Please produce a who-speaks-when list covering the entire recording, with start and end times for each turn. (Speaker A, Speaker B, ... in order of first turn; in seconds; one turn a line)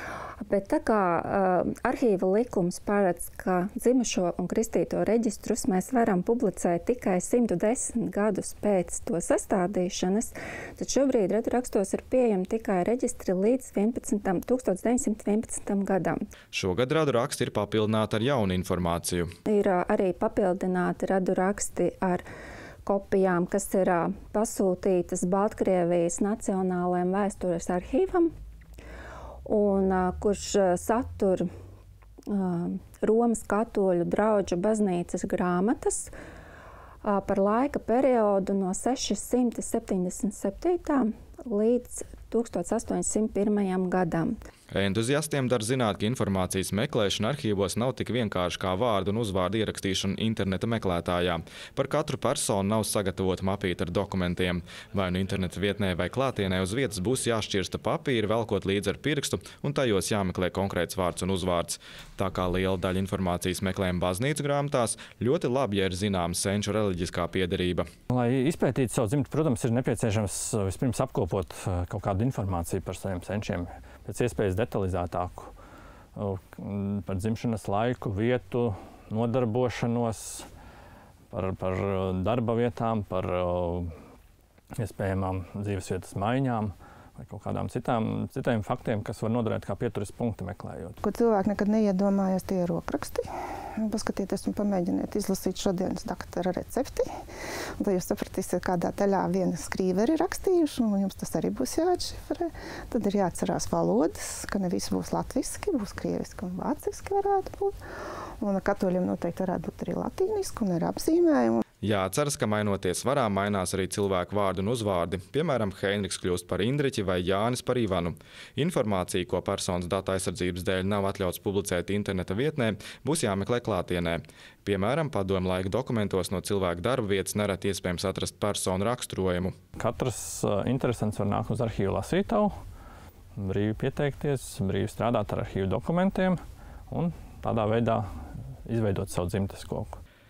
Speaker A: 0.4-16.2
Speaker B: 16.5-19.3
Speaker A: 19.5-22.2
Speaker A: 22.8-28.3
Speaker A: 29.4-31.4
Speaker A: 32.3-36.1
Speaker A: 37.0-44.3
Speaker B: 44.7-67.8
Speaker C: 68.1-75.5
Speaker C: 76.2-80.5
Speaker C: 81.3-83.9
Speaker C: 84.8-91.0
Speaker D: 91.0-97.1
Speaker D: 97.8-107.7
Speaker D: 108.4-111.6
Speaker B: 111.8-129.5
Speaker C: 129.8-132.5
Speaker C: 133.4-136.4
Speaker C: 136.9-138.1
Speaker C: 138.7-140.0